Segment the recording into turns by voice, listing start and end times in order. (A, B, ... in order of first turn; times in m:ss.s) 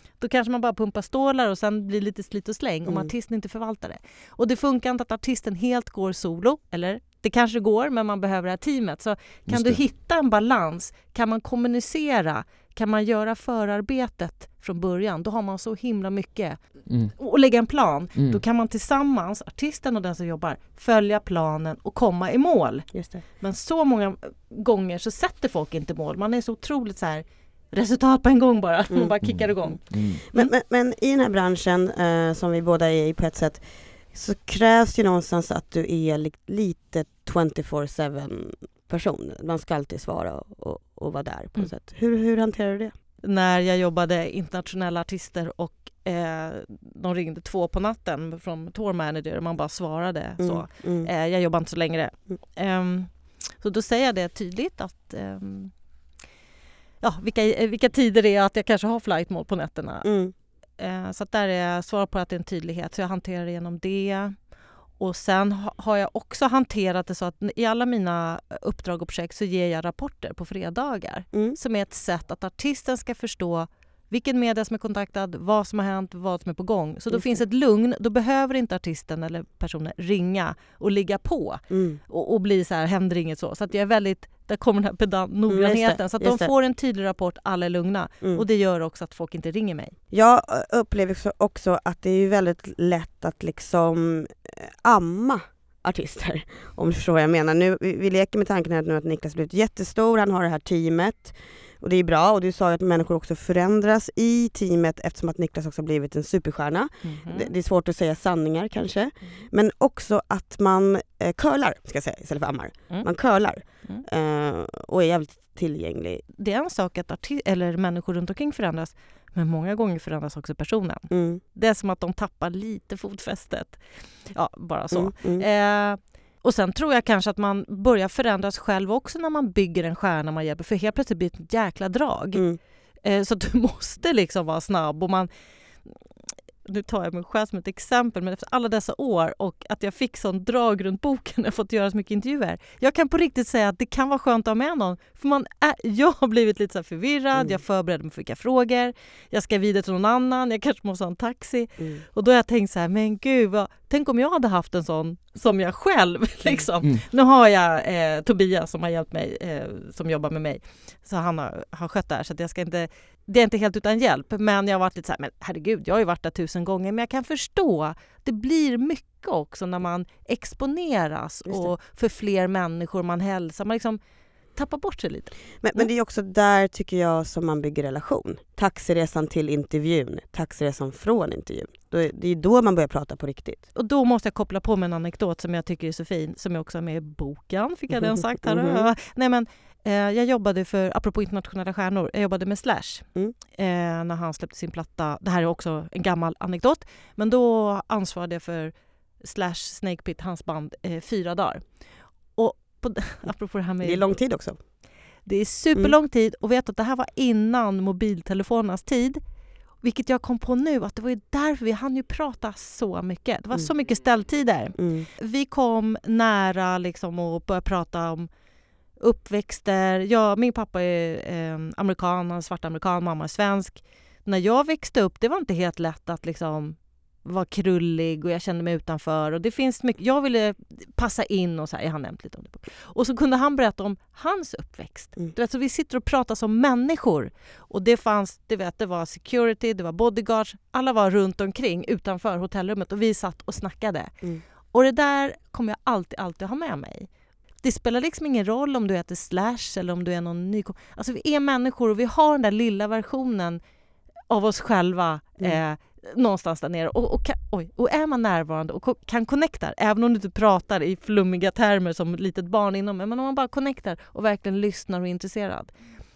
0:00.2-0:16.6 A
0:02.8-0:03.1 B
0:09.5-0:09.8 C
0:16.9-0:17.1 C
0:17.2-0:30.5 A
0:18.2-0:18.4 C
0:22.9-0:23.2 B
0:29.2-0:30.2 C
0:30.3-0:42.9 B
0:43.2-0:55.7 A
0:50.4-0:51.1 B
0:57.0-1:00.1 A
1:00.0-1:00.3 B
1:00.8-1:04.4 A
1:05.0-1:30.0 A
1:21.7-1:22.0 B
1:25.5-1:26.5 B
1:30.1-1:56.2 B
1:47.0-1:47.5 A
1:53.6-1:54.0 A
1:56.4-2:12.4 A
2:01.1-2:01.4 B
2:04.9-2:05.5 B
2:12.3-2:12.6 B
2:13.0-2:15.3 A
2:16.6-2:54.0 A
2:54.6-2:55.9 A
2:55.6-3:03.6 B
3:03.8-3:21.7 A
3:08.4-3:08.9 B
3:22.4-3:24.0 A
3:23.8-3:24.6 B
3:25.3-3:29.2 A
3:29.8-3:38.3 A
3:34.8-3:35.1 B
3:39.0-4:04.2 A
4:04.7-4:07.1 A
4:07.6-4:13.6 A
4:14.3-4:25.7 A